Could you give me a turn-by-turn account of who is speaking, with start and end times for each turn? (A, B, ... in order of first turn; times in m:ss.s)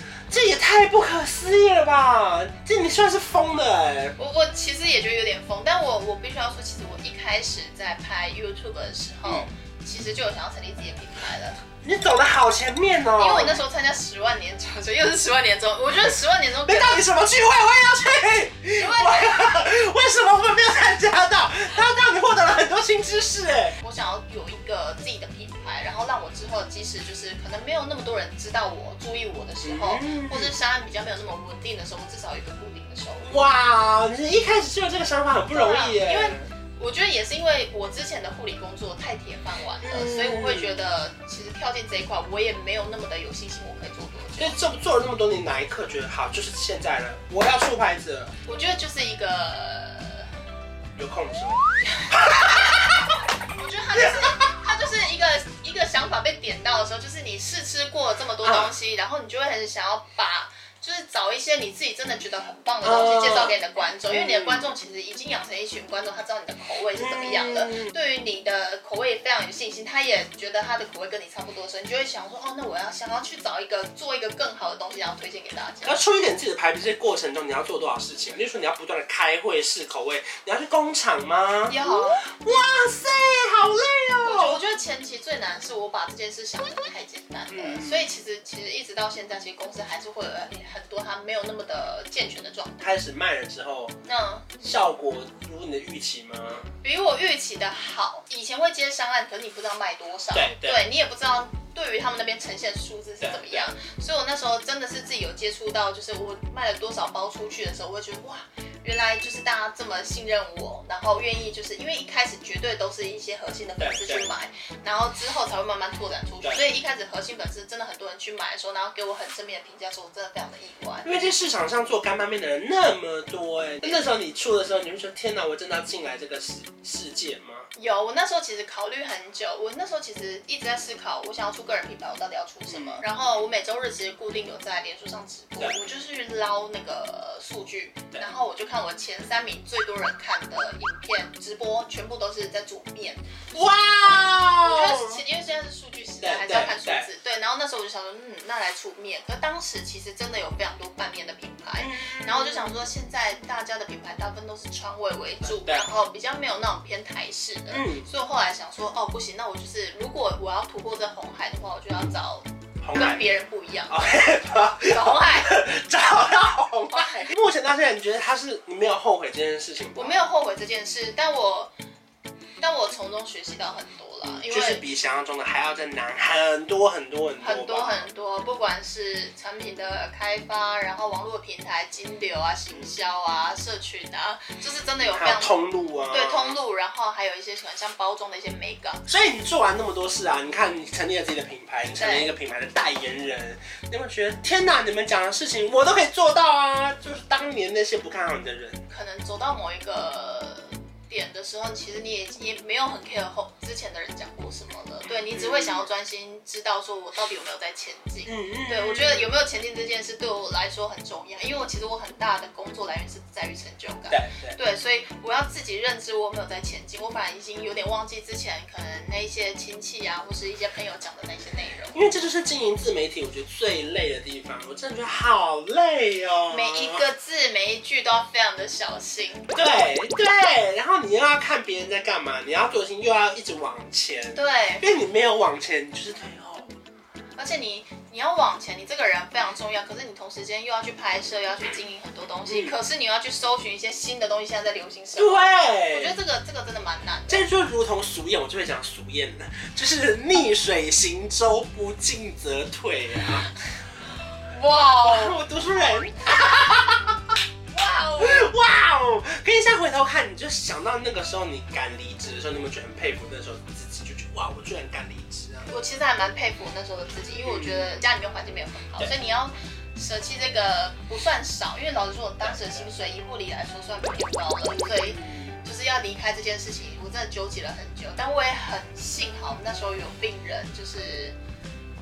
0:00.3-0:04.2 A
0:04.2-0:11.6 B
0:09.2-0:09.5 A
0:11.8-0:13.6 A
0:13.2-0:17.0 B
0:16.6-0:23.8 A
0:18.7-0:19.7 B
0:23.8-0:33.4 B
0:29.6-0:30.6 A
0:33.2-0:36.5 A
0:35.5-0:44.6 B
0:39.8-0:40.8 A
0:44.4-0:48.3 A
0:48.4-0:50.3 B
0:51.0-0:53.2 A
0:53.6-1:16.0 B
0:53.9-0:54.4 A
0:58.4-0:58.7 A
1:02.8-1:03.6 A
1:04.1-1:04.7 A
1:07.0-1:07.9 A
1:15.8-1:24.6 A
1:21.7-1:22.2 B
1:24.2-1:32.9 B
1:27.5-1:28.1 A
1:32.8-1:34.0 A
1:34.0-1:34.6 B
1:34.6-1:36.7 A
1:36.8-2:01.3 B
1:40.3-1:40.8 A
1:43.2-1:43.7 A
1:53.8-1:54.3 A
1:56.4-1:56.7 A
2:01.0-2:07.7 A
2:07.8-2:45.6 B
2:12.7-2:13.0 A
2:23.5-2:25.2 A
2:26.2-2:27.1 A
2:31.8-2:32.8 A
2:35.4-2:35.9 A
2:37.7-2:38.1 A
2:42.8-2:43.3 A
2:43.9-2:50.2 A
2:46.9-2:47.3 B
2:49.9-2:51.7 B
2:52.6-2:54.8 B
2:54.3-2:58.1 A
2:57.4-3:09.0 B
3:05.0-3:06.6 A
3:09.1-3:18.8 A
3:11.9-3:12.3 B
3:18.9-3:42.0 B
3:25.3-3:25.9 A
3:28.2-3:29.4 A
3:34.1-3:34.6 A
3:41.9-3:47.0 A
3:46.5-3:49.5 B
3:49.5-3:56.7 A
3:54.3-3:54.8 B
3:57.4-4:07.5 B
4:02.5-4:02.7 A
4:05.2-4:06.1 A
4:07.3-4:13.5 A
4:14.4-4:15.4 B
4:14.7-4:17.4 A
4:17.7-4:18.5 B
4:18.2-4:25.7 A
4:25.7-4:41.4 B
4:27.4-4:27.9 A
4:32.4-4:32.9 A
4:34.9-4:35.5 A